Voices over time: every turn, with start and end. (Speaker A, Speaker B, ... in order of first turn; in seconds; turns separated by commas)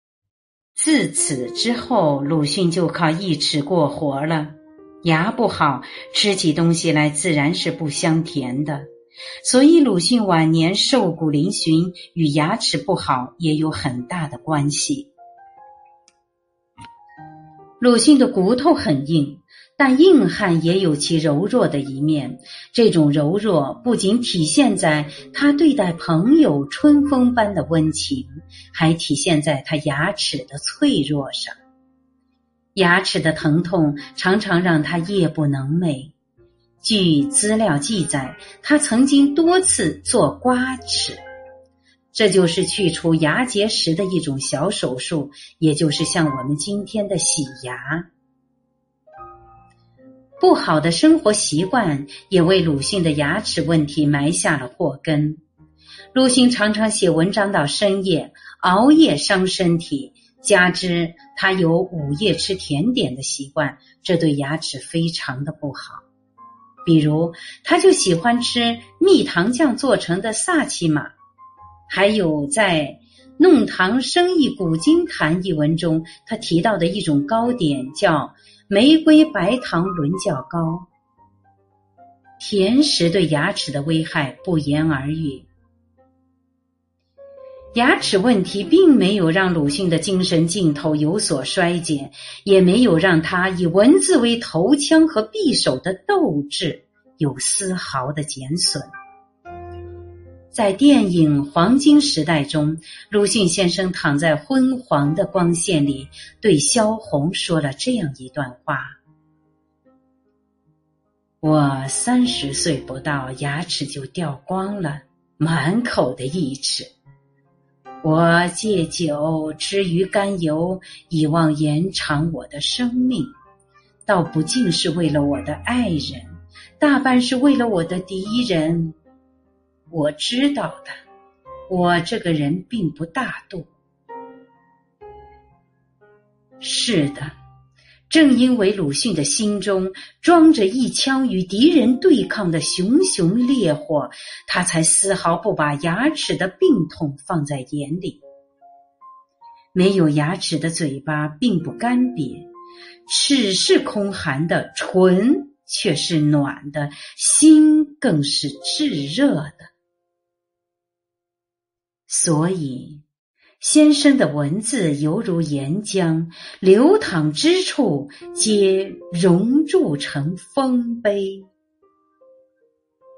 Speaker A: 0.8-8.8, Speaker A: 9.4-15.1, Speaker A: 17.8-31.6, Speaker A: 32.8-36.1, Speaker A: 36.8-41.2, Speaker A: 42.1-48.0, Speaker A: 50.4-55.4, Speaker A: 56.1-66.0, Speaker A: 66.8-71.1, Speaker A: 71.9-80.9, Speaker A: 82.4-85.5, Speaker A: 87.7-98.9, Speaker A: 100.5-108.9, Speaker A: 111.4-116.9, Speaker A: 118.0-123.3, Speaker A: 124.1-126.3, Speaker A: 126.8-129.0, Speaker A: 129.9-131.0, Speaker A: 131.7-133.7, Speaker A: 136.6-137.3, Speaker A: 138.1-148.2, Speaker A: 149.7-152.4, Speaker A: 153.1-159.7, Speaker A: 162.1-163.0, Speaker A: 163.6-171.5